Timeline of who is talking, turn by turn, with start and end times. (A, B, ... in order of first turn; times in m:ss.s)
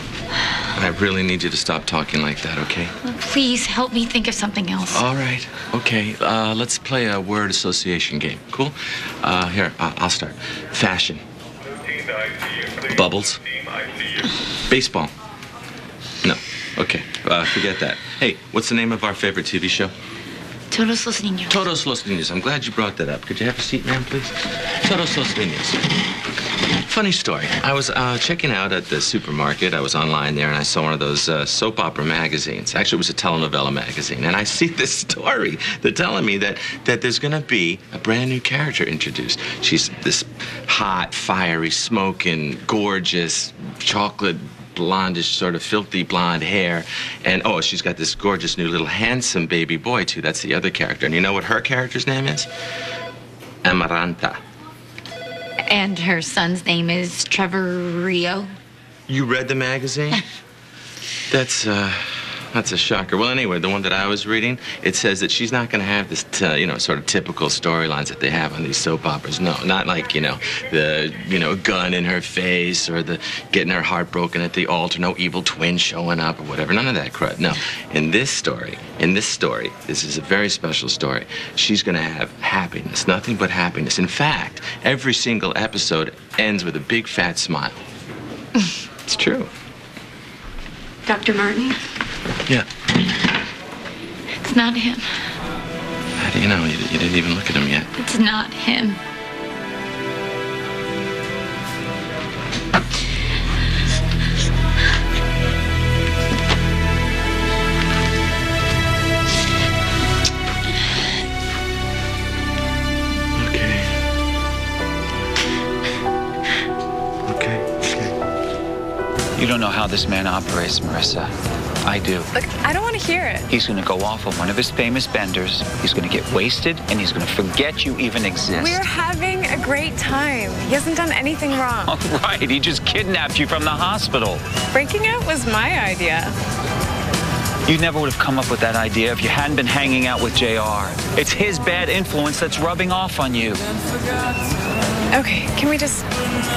0:00.7-0:02.9 A
0:03.0-0:05.0 B
0:04.9-0:11.2 A
0:12.8-0:13.4 A
0:14.7-0:15.1 A
0:16.2-0:19.9 A
0:20.7-0:21.6 B
0:21.5-0:25.8 A
0:26.9-0:52.5 A
0:53.6-0:54.4 A
0:55.6-0:58.5 B
0:59.1-1:00.2 A
1:01.3-1:27.8 A
1:29.1-1:29.5 A
1:31.1-1:31.4 B
1:34.4-1:35.1 B
1:36.2-1:37.9 A
1:38.0-1:39.0 B
1:53.4-1:53.8 A
1:57.3-1:58.1 A
1:59.4-2:01.3 C
2:01.8-2:02.3 C
2:02.3-2:03.5 D
2:03.5-2:08.8 C
2:08.5-2:11.9 D
2:11.8-2:14.4 C
2:14.7-2:16.3 D
2:17.6-2:23.6 C
2:25.1-2:26.1 D